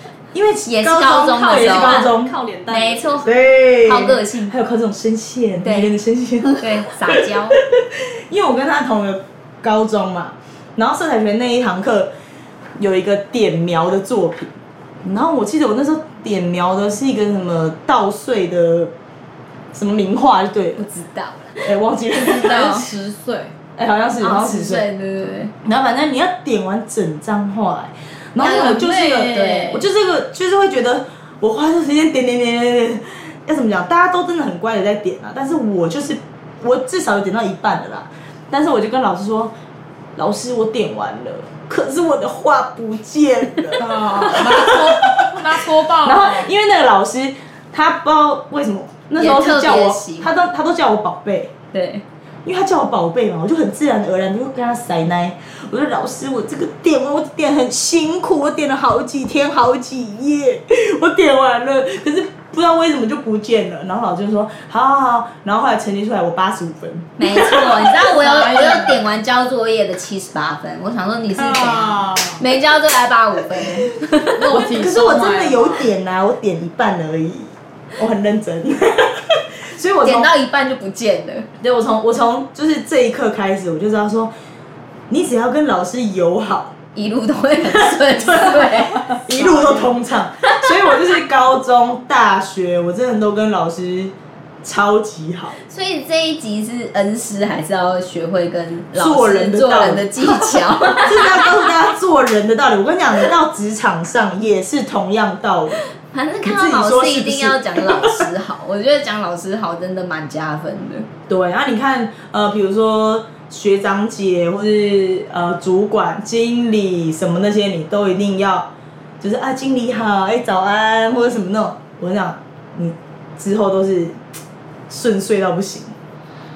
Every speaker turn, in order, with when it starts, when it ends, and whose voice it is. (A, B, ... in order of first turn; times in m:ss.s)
0:00.3-0:02.3 A
0:00.6-0:02.2 B
0:01.4-0:03.3 C
0:02.7-0:04.6 B
0:03.2-0:12.1 A
0:05.6-0:06.0 B
0:06.6-0:07.6 B
0:12.8-0:14.5 A
0:15.0-0:18.9 A
0:19.7-0:20.9 A
0:20.8-0:22.9 B
0:21.6-0:22.8 A
0:22.3-0:23.5 D
0:23.8-0:24.9 A
0:24.2-0:25.5 B
0:25.6-0:39.5 A
0:28.4-0:29.9 B
0:28.5-0:29.4 D
0:40.2-0:51.5 A
0:43.8-0:46.5 D
0:49.2-0:50.3 B
0:51.7-0:52.0 B
0:52.4-1:07.9 A
1:07.2-1:14.3 B
1:08.1-1:09.0 D
1:11.4-1:12.4 D
1:14.3-1:15.9 D
1:14.5-1:20.3 A
1:20.0-1:21.5 B
1:21.6-1:24.3 A
1:25.1-1:26.7 A
1:26.9-1:29.7 B
1:27.9-1:35.6 A
1:35.6-1:41.7 B
1:38.9-1:45.8 A
1:46.0-1:51.1 B
1:46.4-1:48.3 A
1:51.3-1:58.7 A
1:59.2-2:04.2 A
2:04.9-2:06.0 A